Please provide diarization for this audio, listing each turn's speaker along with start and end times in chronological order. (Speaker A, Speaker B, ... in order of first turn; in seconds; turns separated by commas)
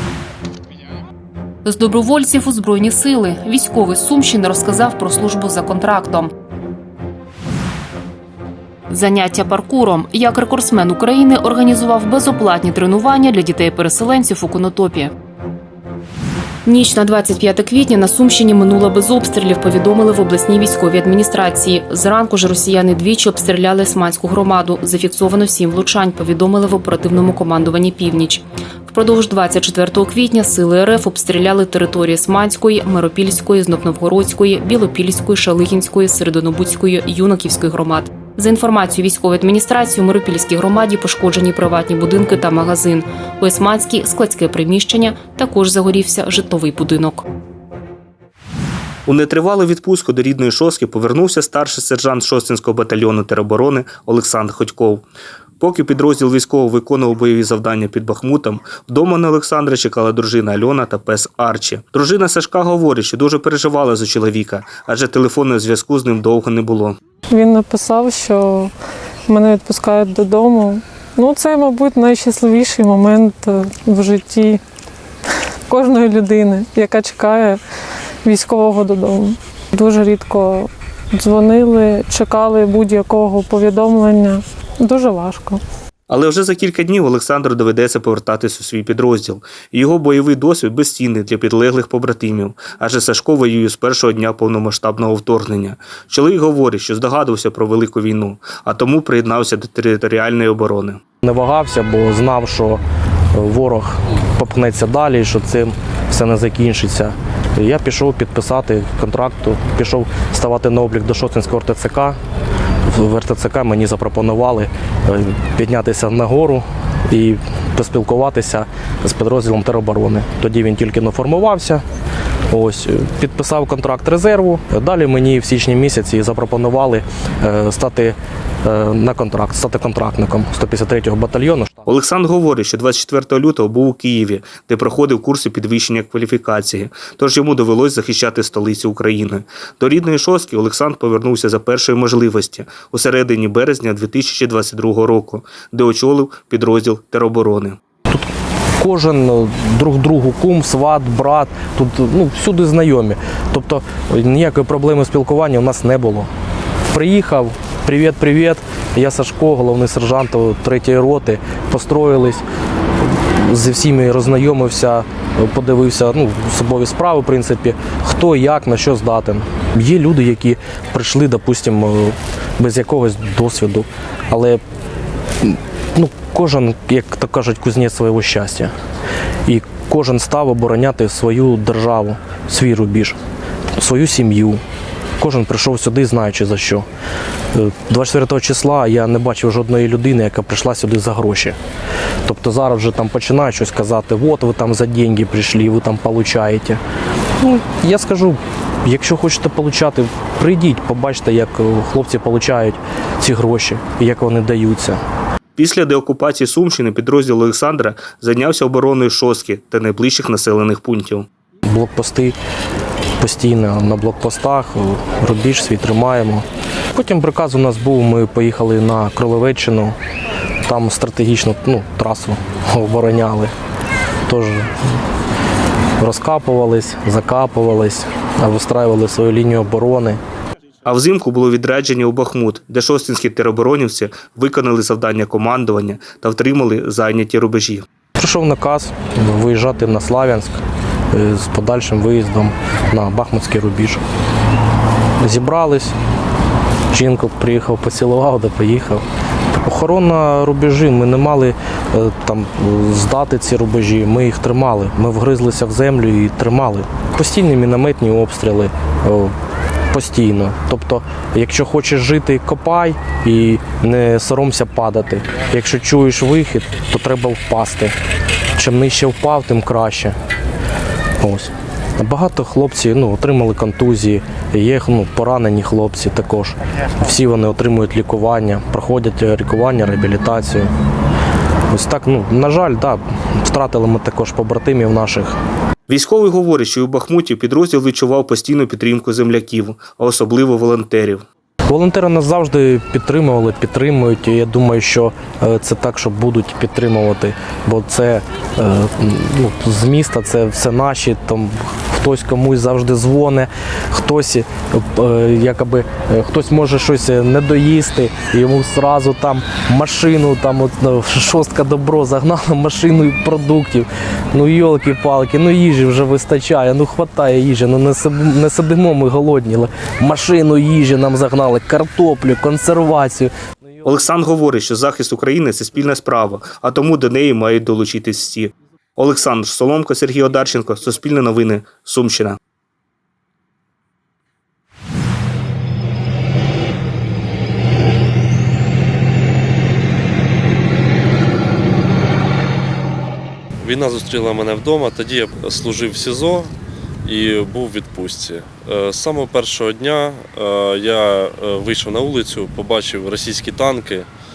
Speaker A: 1.6-6.3, Speaker A: 8.9-15.1, Speaker A: 16.7-47.2, Speaker B: 49.1-55.1, Speaker B: 55.6-67.0, Speaker C: 67.3-68.7, Speaker C: 69.3-74.6, Speaker C: 75.7-77.6, Speaker C: 78.2-85.6, Speaker B: 86.1-101.0, Speaker D: 101.2-102.8, Speaker D: 103.3-112.2, Speaker D: 112.9-121.8, Speaker D: 122.5-131.7, Speaker B: 131.9-147.8, Speaker D: 148.8-156.3, Speaker D: 156.9-162.4, Speaker D: 163.4-174.6, Speaker D: 175.4-178.7, Speaker D: 179.5-183.2, Speaker D: 183.8-184.6, Speaker D: 185.2-186.9, Speaker D: 187.5-191.6, Speaker D: 192.2-196.8, Speaker D: 197.4-205.0, Speaker B: 205.6-211.3, Speaker D: 211.7-212.4, Speaker D: 213.2-220.0, Speaker D: 220.7-223.5, Speaker D: 224.3-224.7, Speaker D: 226.0-230.2, Speaker B: 230.9-237.8, Speaker D: 238.2-240.6, Speaker D: 241.1-244.0, Speaker D: 245.2-245.9, Speaker D: 246.9-249.0, Speaker D: 249.7-259.3, Speaker D: 259.9-267.9, Speaker D: 268.6-270.1, Speaker D: 271.2-280.7, Speaker D: 281.7-285.4, Speaker B: 285.9-291.2, Speaker D: 291.7-323.3, Speaker B: 323.8-332.4, Speaker E: 343.6-346.5, Speaker E: 347.1-354.1